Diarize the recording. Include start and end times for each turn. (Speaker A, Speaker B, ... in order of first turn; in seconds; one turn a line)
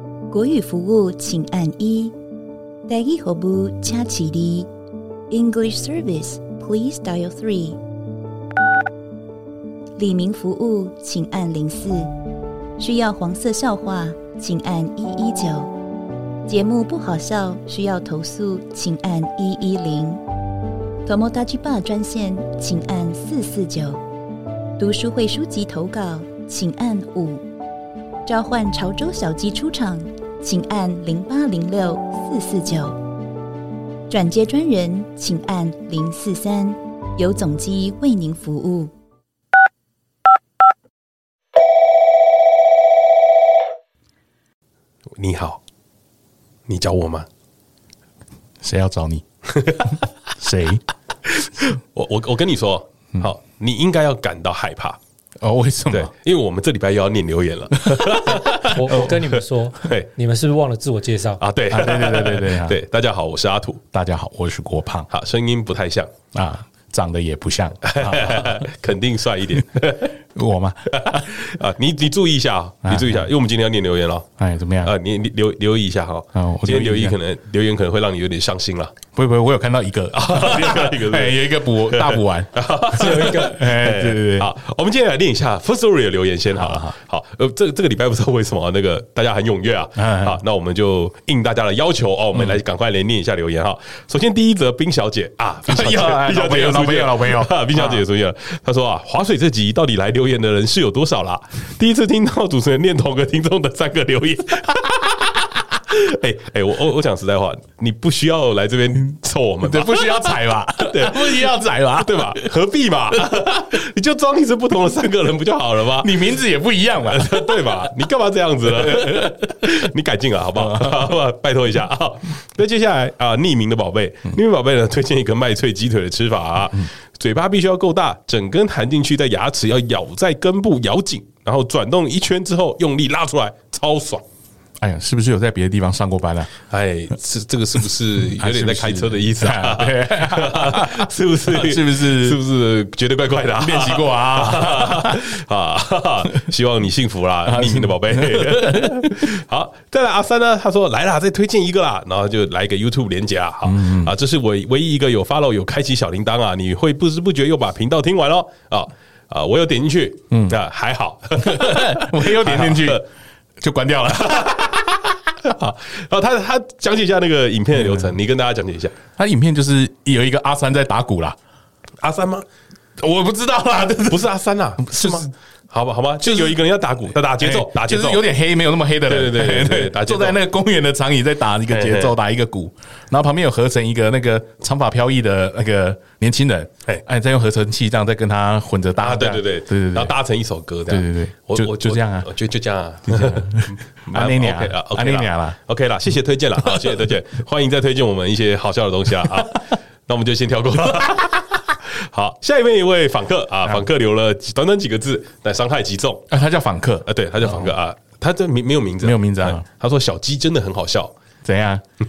Speaker A: 0.3-2.1
Speaker A: 2.9-4.7
Speaker A: 5.3-7.8
Speaker A: 10.0-12.1
Speaker A: 12.8-15.7
Speaker A: 16.5-20.2
Speaker A: 21.1-24.0
Speaker A: 24.8-27.5
Speaker A: 28.3-33.0
Speaker A: 34.1-38.9
Speaker B: 45.2-45.6
Speaker B: 46.7-47.3
Speaker C: 48.6-49.2
Speaker B: 49.5-49.9
Speaker C: 50.4-50.8
Speaker B: 51.3-55.0
Speaker C: 55.4-56.1
Speaker B: 55.9-60.1
Speaker C: 57.8-59.1
Speaker D: 58.7-61.4
Speaker B: 61.4-63.8
Speaker C: 61.7-62.8
Speaker C: 63.9-65.1
Speaker B: 65.1-66.1
Speaker C: 66.3-68.6
Speaker B: 67.8-70.1
Speaker C: 70.3-71.2
Speaker B: 70.9-74.3
Speaker C: 72.8-73.2
Speaker C: 74.4-74.9
Speaker B: 74.8-79.0
Speaker C: 76.3-77.2
Speaker C: 79.1-84.5
Speaker B: 80.1-116.3
Speaker D: 83.0-83.6
Speaker C: 86.5-86.9
Speaker C: 90.0-90.4
Speaker C: 95.7-98.0
Speaker C: 109.6-112.5
Speaker C: 116.0-117.8
Speaker B: 117.1-134.2
Speaker C: 118.7-119.8
Speaker C: 120.5-121.2
Speaker C: 134.8-136.5
Speaker B: 136.7-163.1
Speaker C: 138.3-142.4
Speaker C: 143.6-145.3
Speaker C: 147.5-149.3
Speaker C: 153.7-154.1
Speaker C: 160.3-160.6
Speaker C: 161.4-163.0
Speaker C: 163.6-164.8
Speaker B: 164.1-168.9
Speaker C: 167.8-168.1
Speaker C: 169.2-171.4
Speaker B: 172.0-172.4
Speaker C: 173.0-174.3
Speaker B: 174.1-178.2
Speaker C: 174.8-175.3
Speaker C: 176.2-176.6
Speaker C: 177.4-190.1
Speaker B: 179.1-180.4
Speaker B: 181.7-182.2
Speaker B: 189.0-206.3
Speaker C: 190.9-192.3
Speaker C: 193.1-195.6
Speaker C: 206.3-207.7
Speaker B: 207.1-211.1
Speaker C: 209.0-209.6
Speaker C: 211.4-211.8